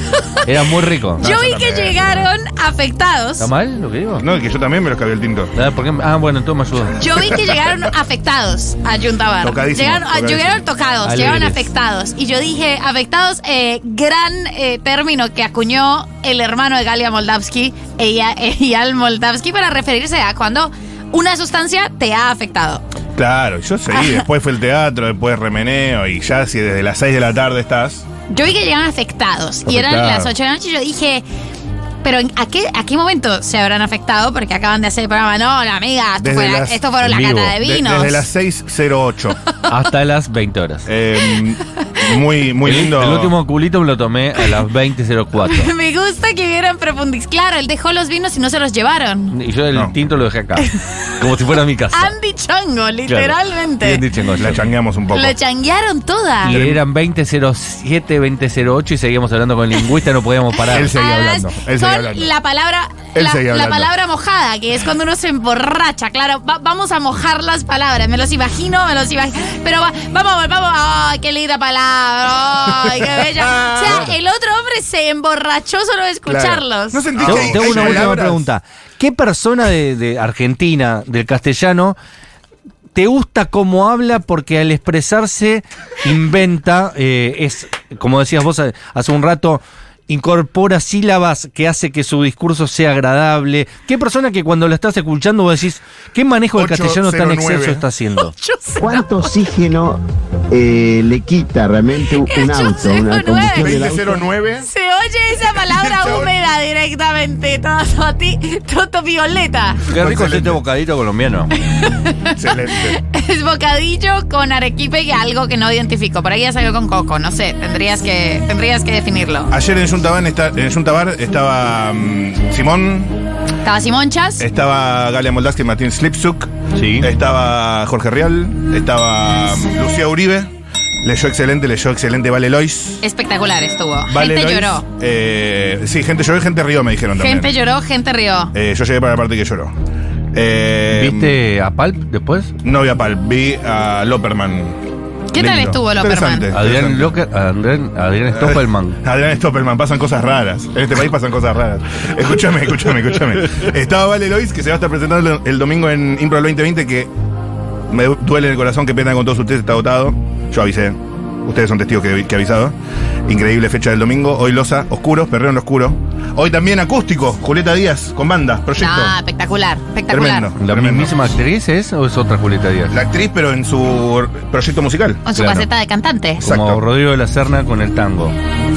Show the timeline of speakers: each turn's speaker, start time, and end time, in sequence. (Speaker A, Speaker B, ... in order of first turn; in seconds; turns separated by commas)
Speaker A: 0.5-1.3, Speaker B: 1.2-3.5, Speaker C: 1.2-2.1, Speaker A: 3.4-4.2, Speaker C: 4.2-5.5, Speaker A: 5.5-7.0, Speaker B: 7.0-22.8, Speaker C: 7.2-7.6, Speaker C: 9.4-10.6, Speaker A: 11.0-11.7, Speaker C: 23.2-28.1, Speaker B: 23.9-24.2, Speaker B: 28.3-31.2, Speaker C: 29.7-30.3, Speaker B: 32.0-38.3, Speaker C: 36.2-36.8, Speaker A: 37.0-37.5, Speaker C: 37.6-39.4, Speaker A: 39.7-40.9, Speaker C: 40.9-43.4, Speaker A: 42.6-45.7, Speaker B: 45.5-49.4, Speaker A: 49.3-50.7, Speaker A: 51.2-52.1, Speaker B: 51.9-54.0, Speaker A: 53.1-54.6, Speaker C: 54.4-55.4, Speaker B: 55.1-56.6, Speaker A: 56.4-60.9, Speaker C: 56.5-56.8, Speaker B: 60.7-78.1, Speaker C: 60.7-62.3, Speaker C: 63.1-63.9, Speaker C: 72.9-74.2, Speaker C: 76.3-78.5, Speaker A: 77.2-82.0, Speaker A: 83.0-98.3, Speaker C: 96.5-97.8, Speaker B: 98.4-99.3, Speaker D: 98.8-104.2, Speaker B: 102.3-103.9, Speaker C: 103.5-104.7, Speaker B: 104.6-109.8, Speaker C: 105.5-106.3, Speaker A: 109.9-111.5, Speaker C: 109.9-110.6, Speaker B: 111.7-119.5, Speaker C: 112.4-113.0, Speaker C: 119.5-123.2, Speaker B: 123.6-124.4, Speaker C: 124.4-133.0, Speaker A: 126.8-127.1, Speaker B: 133.0-134.8, Speaker C: 134.1-137.5, Speaker B: 137.2-138.5, Speaker C: 138.5-139.7, Speaker C: 140.3-141.3, Speaker A: 140.9-142.5, Speaker C: 142.6-144.8, Speaker B: 145.3-146.5, Speaker C: 145.3-147.1, Speaker A: 146.5-149.0, Speaker C: 148.3-157.1, Speaker C: 157.9-162.8, Speaker C: 163.3-169.2, Speaker B: 168.8-170.5, Speaker C: 170.1-171.2, Speaker A: 170.6-172.9, Speaker C: 172.9-175.2, Speaker B: 175.3-176.4, Speaker A: 175.4-175.7, Speaker C: 176.4-176.8, Speaker A: 176.4-178.3